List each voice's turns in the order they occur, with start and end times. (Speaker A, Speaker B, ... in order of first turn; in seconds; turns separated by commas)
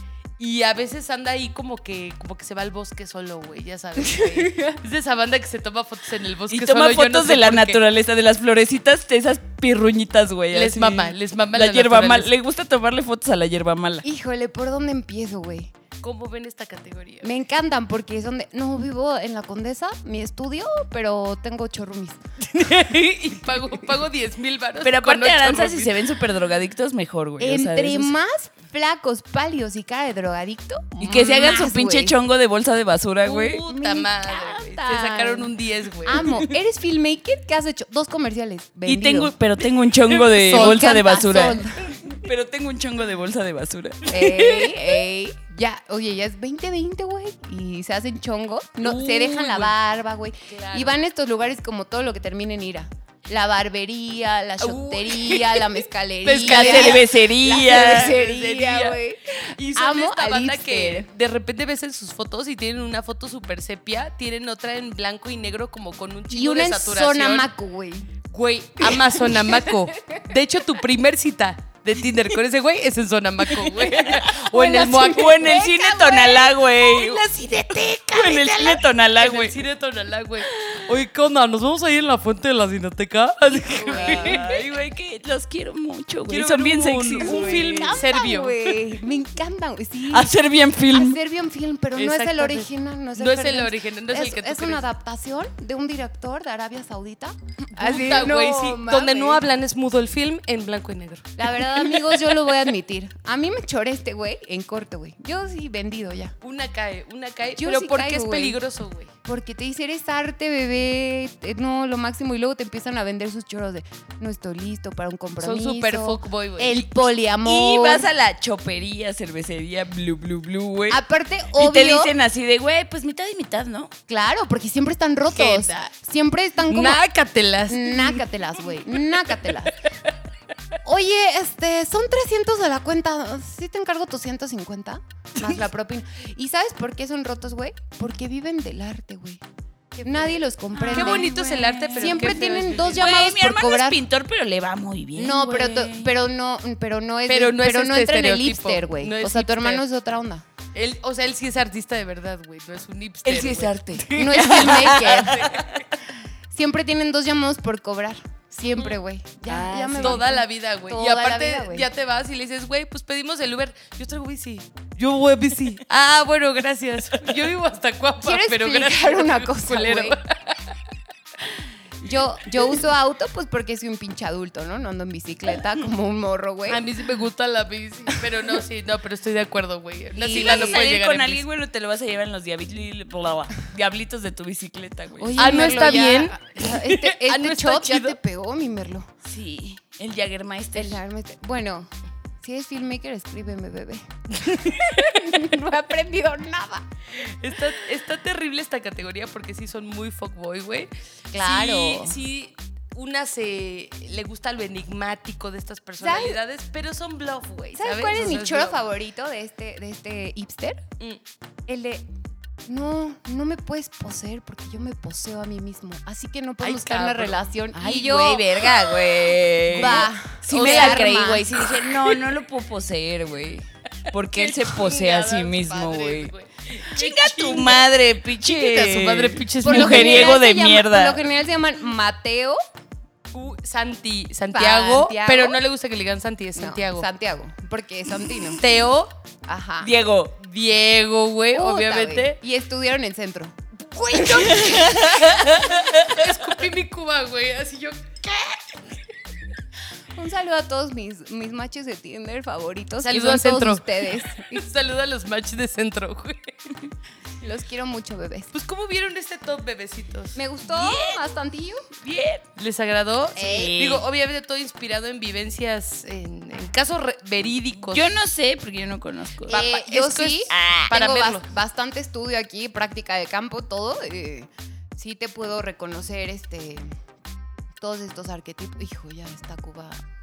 Speaker A: 0.4-7.8, Speaker B: 4.1-4.8, Speaker C: 6.5-14.0, Speaker A: 10.5-12.3, Speaker B: 14.0-15.7, Speaker A: 16.0-17.3, Speaker B: 17.2-22.2, Speaker A: 22.5-26.1, Speaker C: 24.8-28.1, Speaker B: 27.4-32.1, Speaker C: 31.0-33.6, Speaker A: 33.2-36.3, Speaker B: 33.6-35.5, Speaker B: 36.0-39.3, Speaker C: 38.9-44.7, Speaker A: 40.3-40.9, Speaker B: 40.4-41.9, Speaker B: 44.1-61.1, Speaker C: 48.8-49.7, Speaker A: 48.9-49.5, Speaker A: 50.5-51.0, Speaker A: 54.6-59.0, Speaker C: 56.3-58.1, Speaker A: 59.6-67.5, Speaker B: 66.3-68.1, Speaker A: 68.3-75.6, Speaker B: 68.9-70.2, Speaker C: 73.5-79.6, Speaker B: 74.5-76.8, Speaker A: 76.9-84.5, Speaker C: 80.5-80.8, Speaker B: 83.5-84.6, Speaker C: 83.9-88.0, Speaker A: 86.3-88.9, Speaker B: 87.2-90.3, Speaker C: 90.1-91.2, Speaker B: 90.9-99.4, Speaker A: 91.9-94.8, Speaker A: 97.8-102.5, Speaker B: 101.4-106.3, Speaker A: 106.4-109.1, Speaker B: 107.6-108.6, Speaker B: 109.2-118.1, Speaker A: 115.4-116.9, Speaker C: 117.4-121.0, Speaker B: 120.9-122.1, Speaker C: 121.6-123.9, Speaker B: 124.1-127.0, Speaker A: 125.3-125.9, Speaker A: 126.7-128.2, Speaker B: 127.7-129.8, Speaker B: 130.8-139.4, Speaker A: 139.9-143.1, Speaker B: 140.0-141.3, Speaker C: 140.7-146.1, Speaker B: 141.9-144.0, Speaker B: 145.2-150.4, Speaker A: 147.3-149.8, Speaker A: 150.7-155.8, Speaker C: 153.2-155.8, Speaker B: 154.1-155.5, Speaker B: 156.5-161.9, Speaker C: 159.5-160.2, Speaker A: 160.0-170.7, Speaker B: 168.2-170.2, Speaker B: 172.0-176.8, Speaker A: 176.7-181.4, Speaker B: 180.1-180.9, Speaker C: 180.3-185.8, Speaker B: 185.2-189.1, Speaker A: 185.4-188.2, Speaker C: 189.2-191.0, Speaker B: 190.7-191.9, Speaker B: 192.4-196.8, Speaker A: 194.5-195.1, Speaker A: 197.2-208.8, Speaker B: 201.3-202.2, Speaker B: 206.0-206.4, Speaker B: 207.8-210.8, Speaker B: 211.7-212.0, Speaker B: 212.7-218.7, Speaker A: 216.6-217.5, Speaker C: 217.7-231.2, Speaker A: 219.7-222.1, Speaker B: 219.7-221.5, Speaker A: 224.3-227.8, Speaker A: 228.4-230.4, Speaker B: 229.6-232.6, Speaker A: 233.3-237.1, Speaker B: 234.5-235.6, Speaker B: 236.6-238.6, Speaker A: 238.6-239.1, Speaker B: 239.4-239.9, Speaker C: 239.8-240.3, Speaker A: 240.4-242.4, Speaker B: 241.5-243.6, Speaker A: 243.9-249.0, Speaker C: 244.1-246.2, Speaker B: 244.3-245.0, Speaker B: 250.1-254.6, Speaker A: 253.0-256.8, Speaker B: 257.4-258.5, Speaker A: 258.5-260.4, Speaker B: 260.3-261.9, Speaker C: 260.6-261.2, Speaker C: 262.0-262.4, Speaker A: 262.6-268.2, Speaker B: 263.4-263.8, Speaker C: 263.4-264.0, Speaker C: 267.8-269.6, Speaker B: 269.5-276.9, Speaker A: 269.5-271.4, Speaker C: 270.5-270.9, Speaker B: 277.8-280.0